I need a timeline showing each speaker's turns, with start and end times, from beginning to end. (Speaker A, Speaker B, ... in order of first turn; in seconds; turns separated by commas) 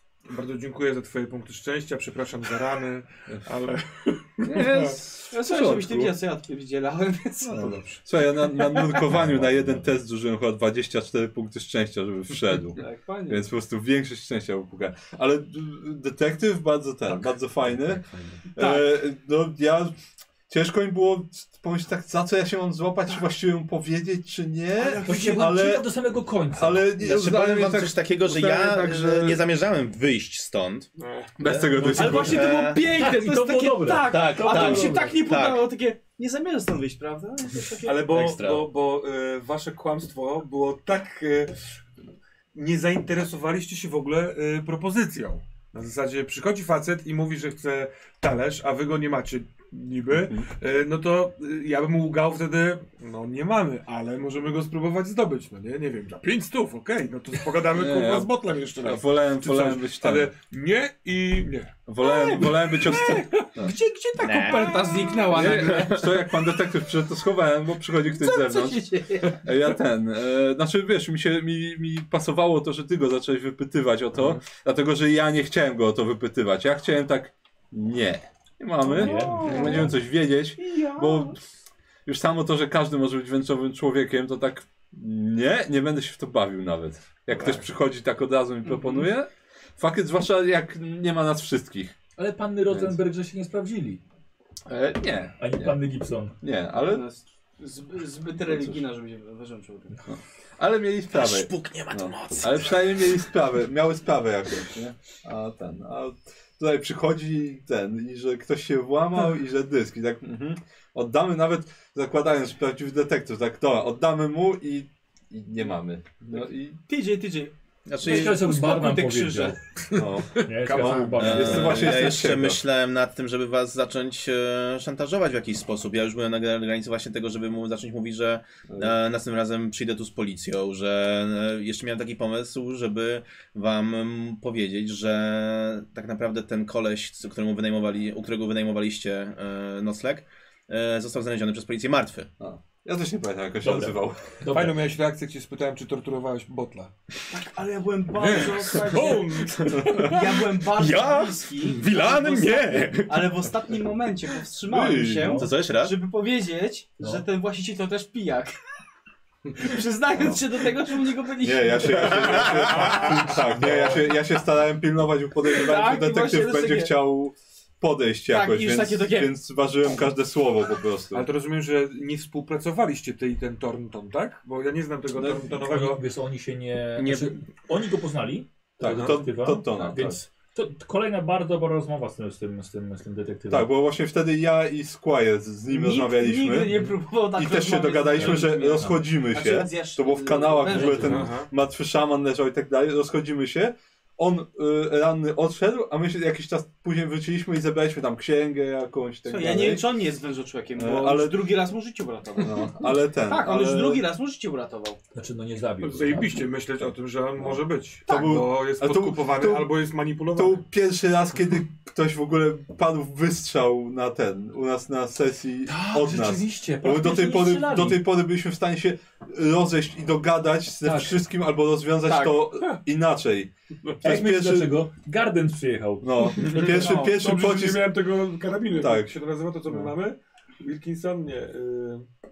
Speaker A: 0.3-4.9, Speaker B: 4.4-6.2, Speaker C: 5.3-7.8, Speaker B: 7.5-18.0, Speaker A: 7.6-8.0, Speaker C: 8.7-9.0, Speaker D: 9.0-9.9, Speaker C: 12.8-13.5, Speaker E: 17.1-18.4, Speaker B: 18.6-19.9, Speaker C: 18.6-18.9, Speaker B: 20.5-25.9, Speaker C: 24.8-25.6, Speaker D: 25.0-26.9, Speaker B: 26.5-29.4, Speaker E: 27.0-30.9, Speaker A: 31.0-32.1, Speaker B: 31.4-32.5, Speaker E: 31.5-32.8, Speaker D: 31.8-32.4, Speaker C: 31.9-38.0, Speaker D: 32.9-35.2, Speaker E: 34.1-35.7, Speaker A: 37.8-41.6, Speaker E: 38.1-38.6, Speaker A: 42.5-61.8, Speaker B: 50.1-50.5, Speaker B: 57.7-58.3, Speaker B: 58.8-60.3, Speaker B: 61.9-63.8, Speaker C: 62.0-66.7, Speaker A: 62.7-63.5, Speaker E: 64.2-64.7, Speaker A: 64.6-65.7, Speaker B: 65.3-81.4, Speaker C: 68.1-69.3, Speaker C: 78.8-79.9, Speaker D: 78.9-79.9, Speaker A: 79.4-79.8, Speaker C: 80.6-81.3, Speaker B: 82.1-91.9, Speaker A: 87.3-87.6, Speaker C: 88.7-89.1, Speaker D: 92.2-94.0, Speaker B: 92.7-93.0, Speaker B: 94.7-95.8, Speaker D: 95.4-96.4, Speaker B: 96.4-97.0, Speaker C: 96.8-100.0, Speaker B: 98.4-98.8, Speaker B: 100.1-116.8, Speaker E: 101.1-103.2, Speaker C: 116.3-119.6, Speaker E: 117.8-118.4, Speaker D: 118.0-119.6, Speaker A: 119.8-121.3, Speaker B: 120.0-122.6, Speaker D: 120.5-122.1, Speaker E: 121.2-142.3, Speaker B: 142.4-144.4, Speaker D: 143.6-144.8, Speaker A: 144.5-147.4, Speaker C: 147.3-149.3, Speaker A: 148.2-153.5, Speaker C: 150.0-158.5, Speaker B: 154.7-155.4, Speaker D: 155.2-155.5, Speaker E: 155.3-156.0, Speaker D: 157.0-157.2, Speaker C: 159.5-162.7, Speaker B: 161.4-171.3, Speaker A: 162.1-163.4, Speaker D: 162.9-164.1, Speaker C: 165.5-166.9, Speaker C: 168.3-169.3, Speaker A: 171.1-176.0, Speaker B: 175.2-175.4, Speaker D: 175.7-183.7, Speaker E: 177.0-177.3, Speaker B: 178.8-180.2, Speaker B: 183.5-186.8, Speaker C: 185.7-191.1, Speaker B: 187.3-199.9, Speaker D: 188.2-189.0, Speaker D: 190.7-191.3, Speaker A: 190.9-191.5, Speaker C: 199.3-205.0, Speaker B: 200.8-201.4, Speaker B: 202.4-204.0, Speaker D: 205.2-206.4, Speaker A: 205.8-210.6, Speaker B: 207.5-209.7, Speaker C: 208.1-208.4, Speaker B: 210.3-223.5, Speaker D: 215.7-217.9, Speaker D: 220.8-221.2, Speaker C: 222.0-222.5, Speaker B: 224.0-224.8, Speaker D: 224.0-226.4, Speaker B: 226.0-227.9, Speaker A: 226.4-232.1, Speaker B: 228.8-229.2